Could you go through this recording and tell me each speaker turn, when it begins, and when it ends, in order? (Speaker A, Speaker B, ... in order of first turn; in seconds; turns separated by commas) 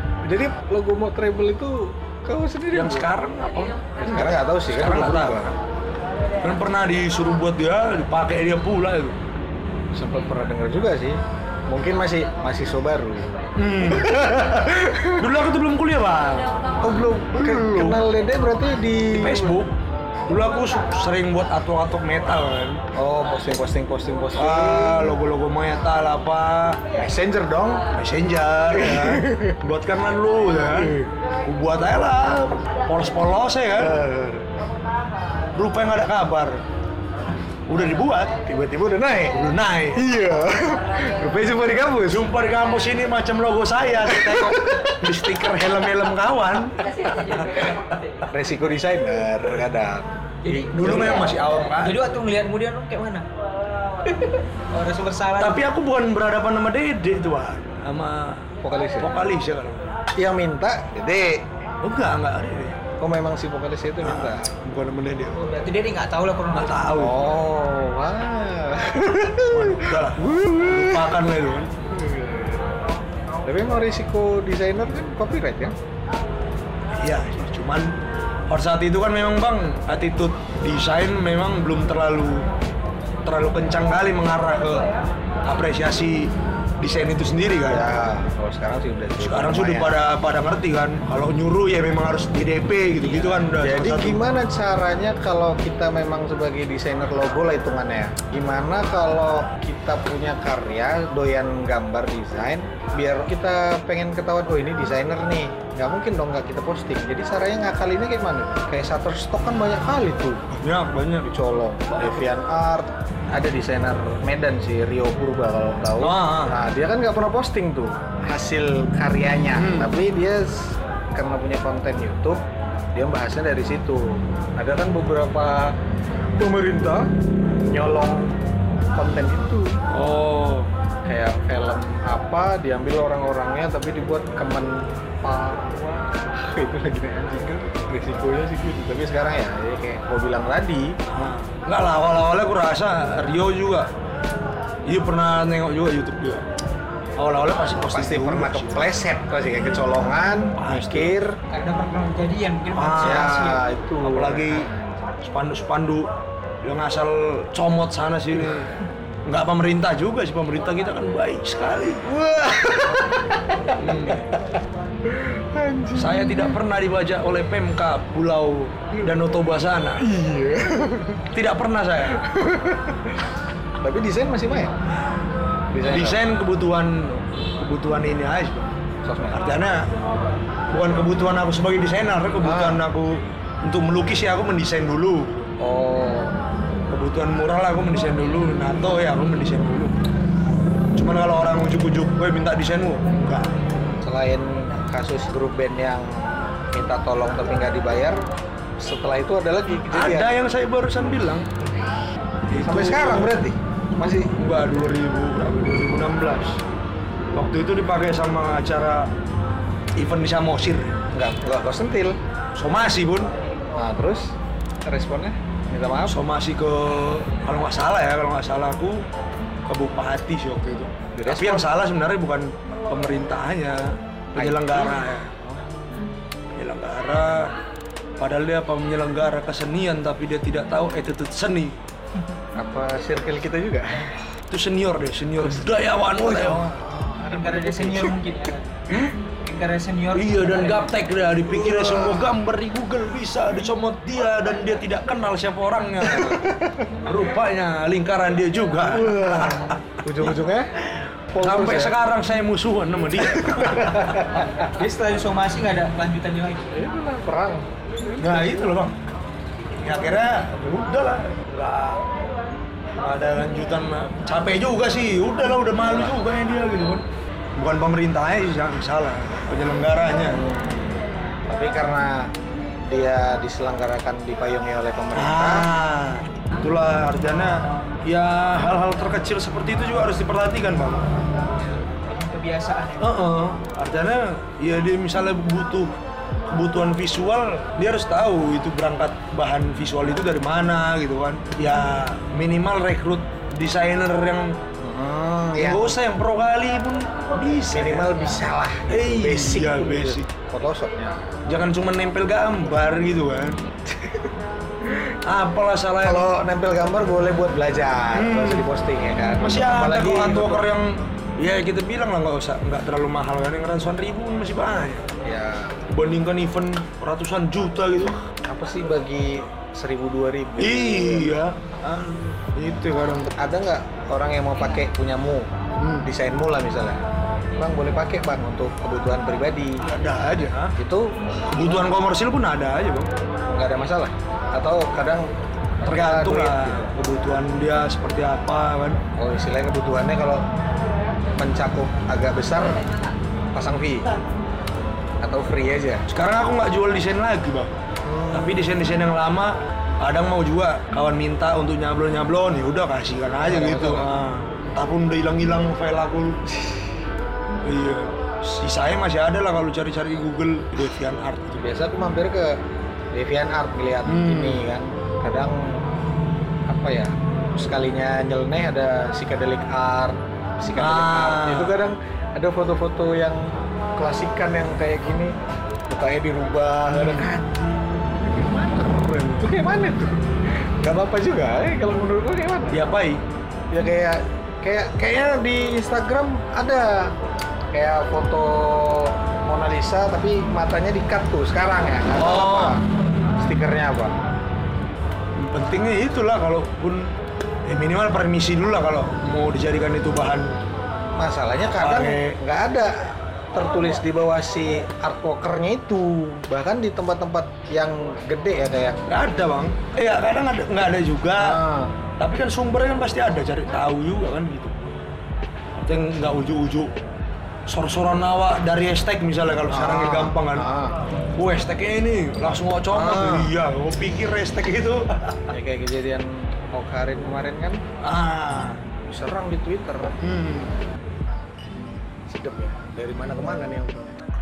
Speaker A: 0.2-3.1, Speaker B: 2.7-5.5, Speaker A: 4.0-5.6, Speaker B: 6.4-9.2, Speaker A: 9.9-15.3, Speaker B: 13.6-14.5, Speaker B: 15.1-18.0, Speaker A: 16.8-19.6, Speaker B: 19.1-19.7, Speaker B: 20.3-22.8, Speaker A: 22.9-25.1, Speaker B: 24.4-26.8, Speaker A: 26.9-27.8, Speaker B: 27.9-34.0, Speaker A: 28.7-29.6, Speaker A: 33.8-34.5, Speaker B: 35.5-36.6, Speaker B: 37.7-38.3, Speaker A: 38.4-39.4, Speaker B: 39.3-40.0, Speaker A: 39.9-42.3, Speaker B: 42.1-48.2, Speaker A: 44.0-45.1, Speaker A: 48.3-51.3, Speaker C: 50.4-51.2, Speaker B: 50.7-52.0, Speaker C: 51.8-53.2, Speaker C: 54.0-55.6, Speaker B: 55.4-59.9, Speaker A: 58.6-59.1, Speaker A: 60.1-61.5, Speaker B: 61.8-62.8, Speaker A: 63.0-64.5, Speaker B: 64.0-65.5, Speaker C: 65.3-66.9, Speaker B: 66.5-67.2, Speaker A: 66.9-71.2, Speaker B: 69.5-71.7, Speaker A: 71.9-72.7, Speaker A: 73.4-75.7, Speaker B: 77.0-78.0, Speaker B: 78.5-82.5, Speaker B: 83.2-84.9, Speaker B: 85.4-88.0, Speaker A: 87.7-90.0, Speaker B: 89.2-94.2, Speaker A: 93.0-110.4, Speaker B: 110.5-111.3, Speaker A: 111.3-122.4, Speaker B: 111.9-112.2, Speaker B: 116.0-116.6, Speaker B: 119.5-119.9, Speaker A: 122.9-125.8, Speaker A: 126.3-127.1, Speaker A: 127.7-128.4, Speaker A: 128.9-129.8, Speaker B: 129.9-130.7, Speaker A: 131.1-141.0, Speaker B: 141.1-143.9, Speaker B: 144.8-146.4, Speaker B: 147.2-148.9, Speaker A: 147.9-151.4, Speaker B: 150.6-151.2, Speaker C: 151.5-153.6, Speaker B: 152.7-153.5, Speaker A: 153.0-155.1, Speaker B: 154.0-154.7, Speaker B: 155.2-156.1, Speaker B: 156.6-158.7, Speaker A: 158.3-158.7, Speaker B: 159.2-162.1, Speaker A: 162.0-166.6, Speaker B: 163.8-164.3, Speaker B: 165.9-170.1, Speaker A: 170.0-171.2, Speaker B: 171.3-172.2, Speaker A: 172.1-173.2, Speaker A: 173.8-174.8, Speaker A: 175.7-176.2, Speaker B: 175.8-178.7, Speaker A: 179.0-179.4, Speaker B: 179.3-179.8, Speaker B: 180.7-185.3, Speaker A: 182.4-182.8, Speaker A: 185.6-186.3, Speaker B: 186.9-189.9, Speaker B: 190.9-193.5, Speaker A: 194.0-198.2, Speaker A: 198.8-200.3, Speaker B: 199.9-201.5, Speaker B: 202.5-203.4, Speaker A: 202.6-204.3, Speaker B: 204.3-206.6, Speaker B: 207.3-209.1, Speaker B: 209.9-211.0, Speaker A: 211.1-212.2, Speaker B: 212.6-213.3, Speaker A: 213.7-214.3, Speaker A: 214.8-216.2, Speaker B: 216.1-219.1, Speaker B: 219.7-225.3, Speaker A: 221.1-221.7, Speaker A: 224.3-225.8, Speaker B: 226.6-227.5, Speaker B: 228.2-231.8, Speaker A: 232.6-234.1, Speaker B: 234.5-236.8, Speaker A: 235.6-238.1, Speaker C: 237.3-238.8, Speaker C: 239.4-240.9, Speaker B: 240.1-246.4, Speaker A: 241.5-242.3, Speaker A: 246.0-246.9, Speaker B: 247.0-250.3, Speaker A: 248.9-250.7, Speaker A: 251.3-251.9, Speaker B: 251.4-254.3, Speaker A: 253.2-254.7, Speaker C: 254.7-256.7, Speaker A: 256.7-258.7, Speaker B: 258.2-258.9, Speaker B: 259.8-262.0, Speaker B: 263.0-267.0, Speaker A: 265.8-266.1, Speaker B: 267.6-270.4, Speaker A: 270.3-272.3, Speaker A: 272.9-275.7, Speaker B: 275.1-281.1, Speaker C: 281.6-283.2, Speaker B: 283.0-285.9, Speaker B: 286.5-294.6, Speaker A: 294.8-296.0, Speaker B: 295.6-298.2, Speaker A: 297.7-301.3, Speaker B: 298.9-300.3, Speaker B: 301.4-303.6, Speaker A: 304.0-304.2, Speaker B: 305.1-306.3, Speaker A: 306.0-310.7, Speaker B: 308.1-308.6, Speaker B: 309.4-315.1, Speaker A: 315.2-315.8, Speaker B: 315.9-318.3, Speaker A: 318.4-321.3, Speaker B: 320.6-323.3, Speaker A: 323.3-325.5, Speaker B: 325.8-326.1, Speaker A: 326.0-327.0, Speaker A: 327.6-330.0, Speaker B: 329.8-330.7, Speaker A: 330.7-331.7, Speaker B: 331.5-333.1, Speaker A: 333.5-335.3, Speaker A: 335.8-336.9, Speaker B: 335.9-339.0, Speaker A: 339.2-340.4, Speaker A: 341.4-342.8, Speaker A: 343.5-344.1, Speaker A: 345.2-346.0, Speaker B: 346.1-347.7, Speaker A: 348.0-348.7, Speaker B: 348.3-356.4, Speaker A: 353.4-354.1, Speaker A: 356.5-356.8, Speaker B: 357.6-361.7, Speaker A: 361.6-362.6, Speaker A: 363.1-365.8, Speaker B: 364.0-364.6, Speaker A: 366.7-375.3, Speaker B: 370.8-371.8, Speaker A: 375.9-377.7, Speaker B: 376.9-377.4, Speaker A: 378.2-378.9, Speaker B: 378.6-379.5, Speaker A: 379.4-382.8, Speaker B: 382.7-383.2, Speaker A: 383.7-387.1, Speaker A: 387.7-392.8, Speaker B: 392.1-392.8, Speaker A: 393.4-394.1, Speaker B: 395.4-397.1, Speaker B: 397.6-400.6, Speaker A: 401.2-409.0, Speaker B: 401.8-402.4, Speaker B: 409.1-411.6, Speaker A: 411.4-411.9, Speaker B: 412.2-414.8, Speaker B: 415.8-416.9, Speaker B: 417.7-420.7, Speaker A: 419.7-421.0, Speaker B: 421.4-425.5, Speaker A: 422.9-423.5, Speaker A: 425.5-427.8, Speaker B: 428.0-428.8, Speaker A: 429.1-430.2, Speaker B: 430.2-430.7, Speaker A: 432.3-434.2